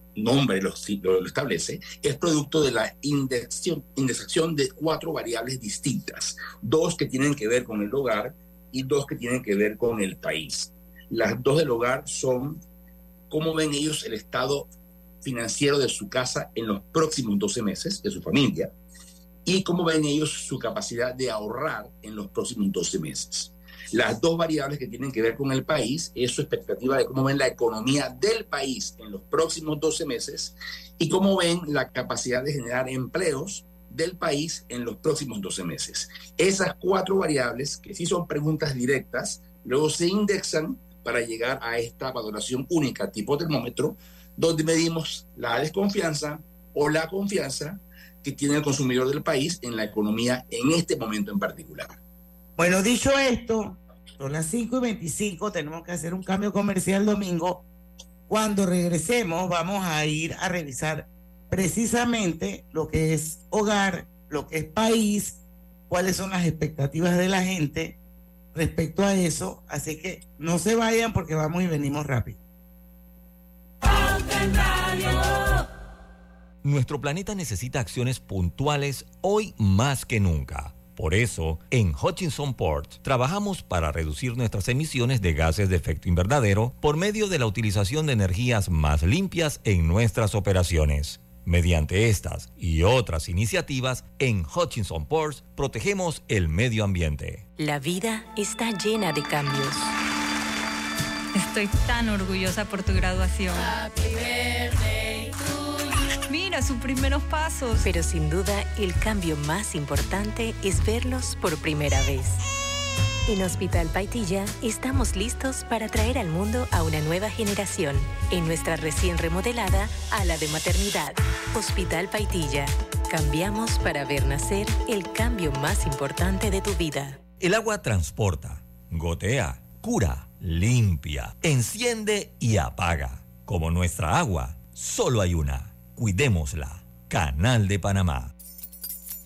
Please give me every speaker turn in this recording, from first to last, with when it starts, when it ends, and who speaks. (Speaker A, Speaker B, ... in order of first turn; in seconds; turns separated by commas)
Speaker A: 0.2-12.6, Speaker A: 13.3-14.7, Speaker A: 15.2-18.7, Speaker A: 19.4-51.9, Speaker B: 52.6-57.6, Speaker B: 58.3-68.0, Speaker B: 68.5-72.4, Speaker C: 76.6-97.4, Speaker D: 97.6-99.9, Speaker E: 101.3-103.8, Speaker E: 106.3-107.9, Speaker D: 107.8-112.4, Speaker D: 113.3-127.2, Speaker C: 127.4-138.3